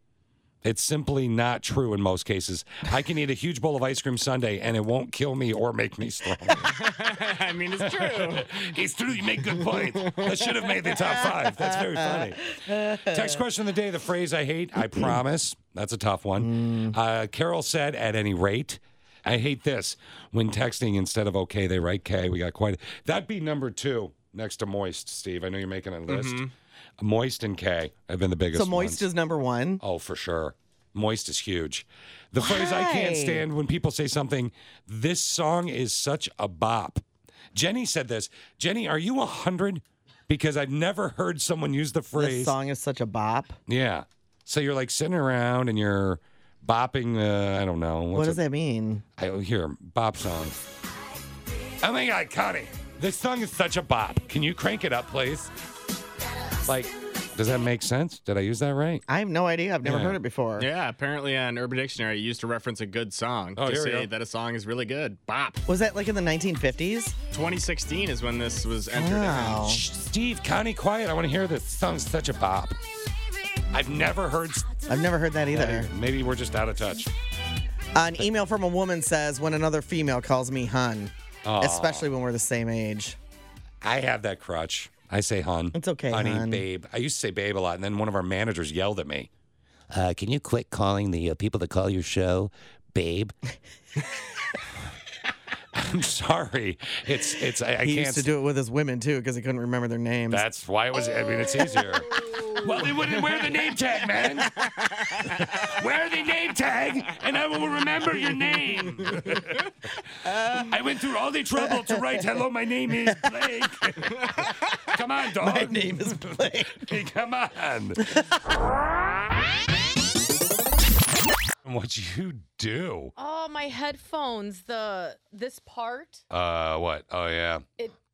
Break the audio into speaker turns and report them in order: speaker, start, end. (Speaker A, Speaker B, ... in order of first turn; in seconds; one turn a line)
Speaker A: 0.6-6.7
Speaker B: 6.7-8.6
Speaker A: 7.8-29.1
Speaker C: 10.9-13.4
Speaker C: 14.8-15.2
Speaker C: 16.4-17.0
Speaker B: 26.1-26.5
Speaker C: 28.5-29.8
Speaker A: 29.8-42.5
Speaker C: 32.4-33.5
Speaker C: 42.1-43.6
Speaker A: 43.7-48.4
Speaker C: 48.1-49.0
Speaker A: 49.2-50.6
Speaker A: 51.8-55.5
Speaker A: 56.6-59.0
Speaker C: 59.1-60.7
Speaker A: 59.9-60.2
Speaker B: 60.6-65.6
Speaker A: 63.6-64.1
Speaker C: 65.7-67.2
Speaker B: 67.3-69.7
Speaker C: 68.9-69.8
Speaker A: 69.6-72.8
Speaker A: 73.7-74.8
Speaker C: 74.9-75.9
Speaker A: 75.5-77.1
Speaker C: 78.0-83.2
Speaker A: 81.5-82.1
Speaker A: 83.8-89.3
Speaker C: 85.7-86.6
Speaker A: 89.9-93.3
Speaker A: 95.7-98.3
Speaker C: 97.8-100.5
Speaker A: 100.3-104.5
Speaker A: 105.6-109.7
Speaker C: 110.3-110.7
Speaker A: 110.3-115.9
Speaker C: 111.6-112.0
Speaker C: 115.3-116.9
Speaker A: 116.7-118.0
Speaker A: 121.6-123.1
Speaker D: 123.2-126.2
Speaker A: 126.3-127.7